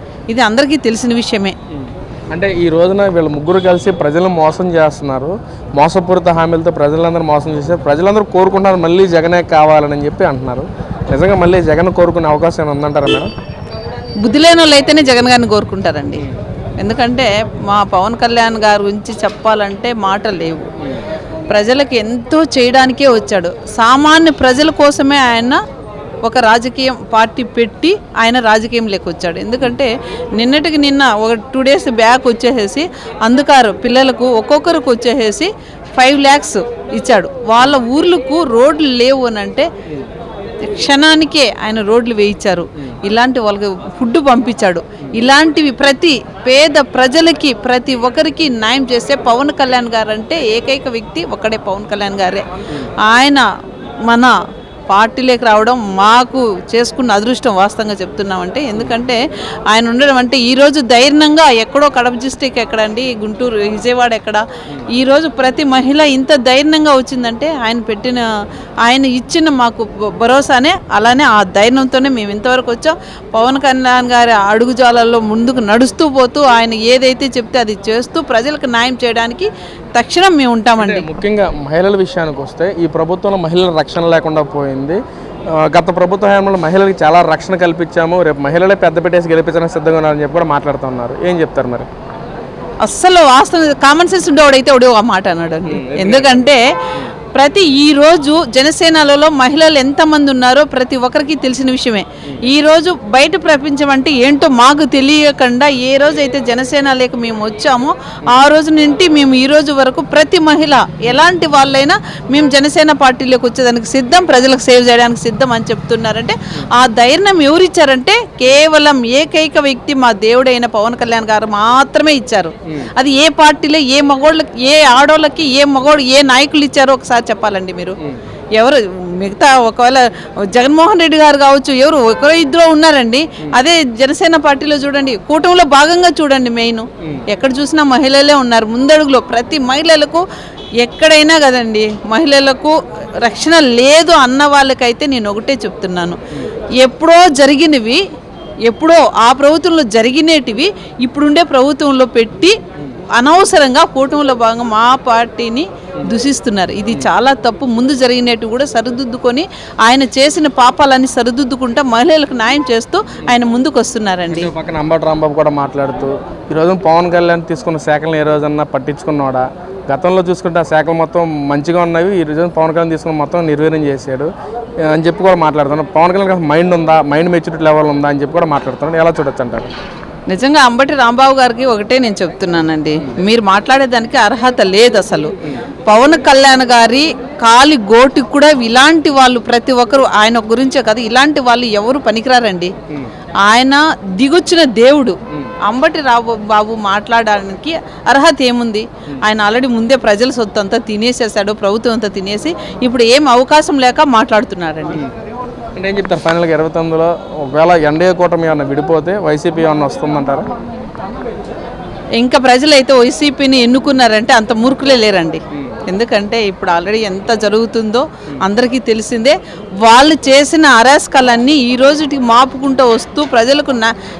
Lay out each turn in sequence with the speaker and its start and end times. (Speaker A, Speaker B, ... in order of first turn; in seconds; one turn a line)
Speaker A: 0.3-1.6
Speaker B: 1.7-13.3
Speaker A: 14.2-16.2
Speaker A: 16.8-20.7
Speaker A: 21.5-25.6
Speaker A: 26.2-39.7
Speaker A: 40.6-52.5
Speaker A: 53.0-53.5
Speaker A: 54.0-54.3
Speaker A: 54.9-64.4
Speaker A: 64.9-68.2
Speaker A: 68.8-81.1
Speaker B: 80.8-85.0
Speaker B: 85.5-91.9
Speaker A: 92.8-96.6
Speaker B: 95.7-97.1
Speaker A: 97.3-128.0
Speaker A: 128.6-140.2
Speaker A: 140.8-146.2
Speaker A: 146.8-148.0
Speaker A: 148.7-152.6
Speaker A: 153.1-164.5
Speaker B: 164.3-174.3
Speaker B: 174.8-179.7
Speaker A: 180.3-185.3
Speaker A: 185.8-192.7
Speaker A: 193.4-205.0
Speaker B: 205.8-210.5
Speaker A: 212.2-223.9